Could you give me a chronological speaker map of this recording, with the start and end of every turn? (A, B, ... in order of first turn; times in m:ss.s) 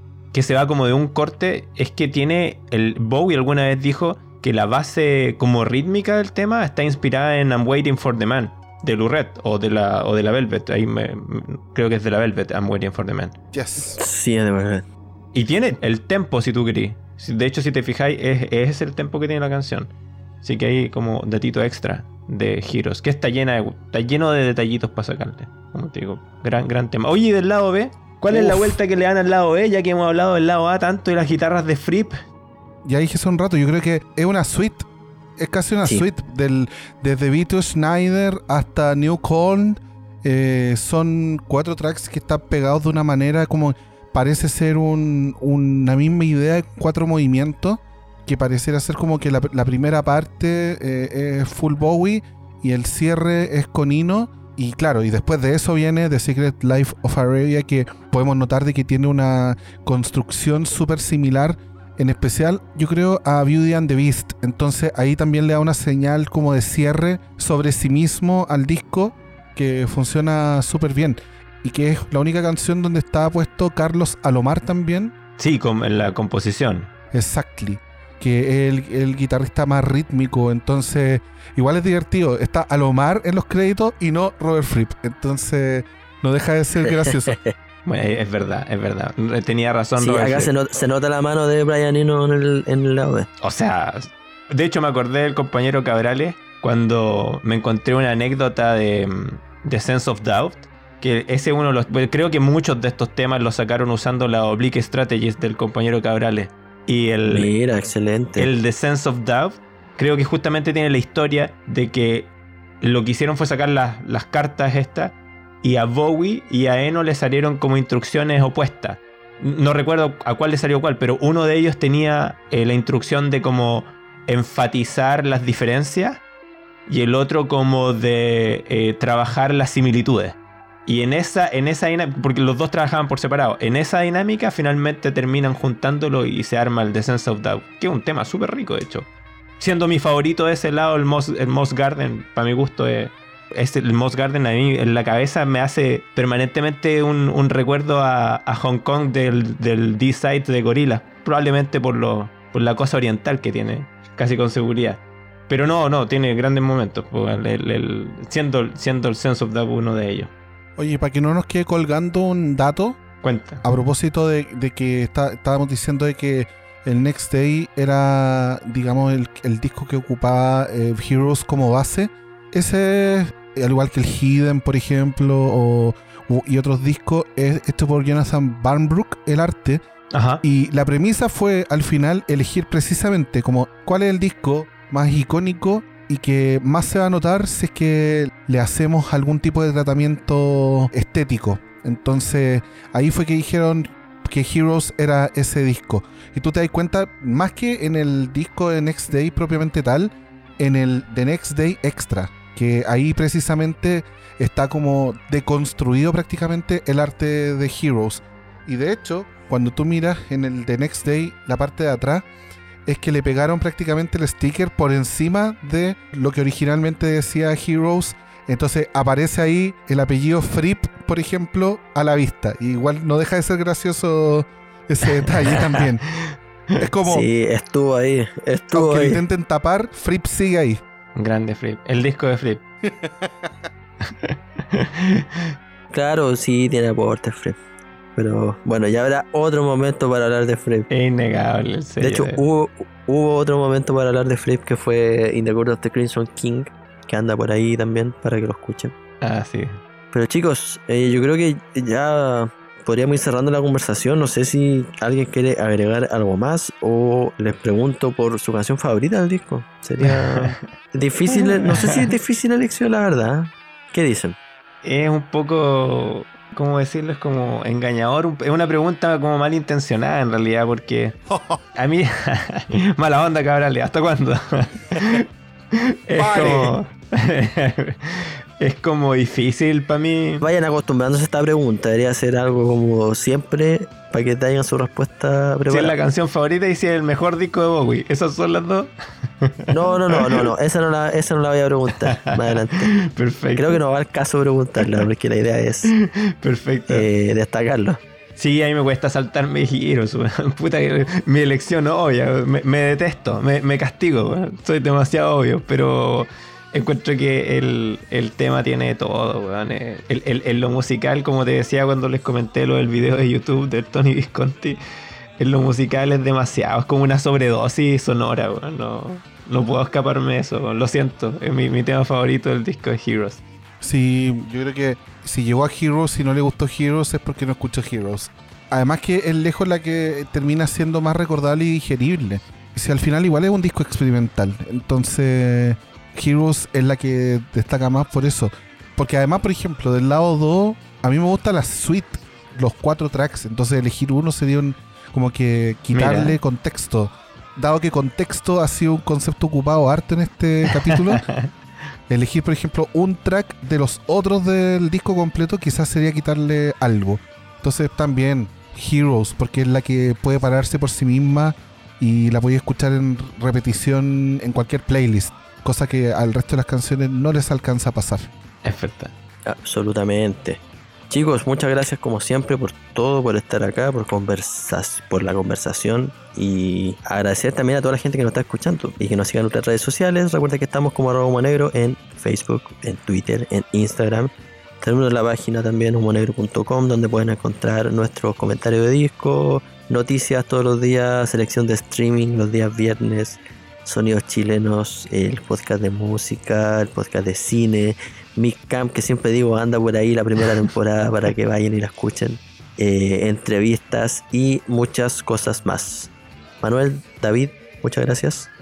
0:00.3-0:13.4 A
0:13.5-0:14.0 B
0:13.8-0:14.8 C
0:15.3-0:19.9 A
0:20.4-0:32.2 A
0:28.3-0:28.8 C
0:32.9-0:34.9 B
0:35.4-1:15.1 B
1:15.4-1:16.9 A
1:17.1-1:27.4 B
1:26.8-1:27.5 C
1:27.8-1:30.5 A
1:30.0-1:33.3 C
1:33.4-1:47.5 A
1:47.3-1:48.5 C
1:48.4-1:52.3 A
1:52.8-2:06.2 A
2:06.9-2:19.1 A
2:19.6-2:40.3 A
2:40.8-2:43.0 B
2:43.2-2:43.6 A
2:43.6-2:59.8 B
3:00.1-3:00.4 A
3:00.4-3:32.3 B
3:32.9-3:46.0 B
3:45.5-3:46.8 A
3:46.8-3:47.3 B
3:47.0-3:49.2 C
3:48.7-3:50.8 B
3:51.2-3:52.6 A
3:53.0-3:53.3 B
3:54.1-3:55.4 A
3:55.9-3:57.6 C
3:58.2-4:00.9 C
4:00.9-4:02.4 A
4:02.0-4:08.9 C
4:09.2-4:09.8 A
4:10.1-4:24.4 C
4:20.0-4:20.7 A
4:21.3-4:22.1 A
4:24.8-4:31.2 A
4:31.3-4:31.6 B
4:31.7-4:40.4 A
4:36.2-4:36.8 B
4:40.4-4:46.0 C
4:45.7-4:50.5 A
4:49.7-4:52.9 C
4:52.0-4:53.8 A
4:53.6-4:55.9 C
4:55.9-4:57.1 A
4:56.9-4:58.0 C
4:58.4-5:14.8 A
5:15.4-5:23.4 A
5:23.8-5:51.3 B
5:45.9-5:46.4 A
5:50.7-5:51.5 A
5:52.1-6:08.3 B
6:08.6-6:09.1 A
6:09.5-6:46.1 C
6:46.6-6:48.5 C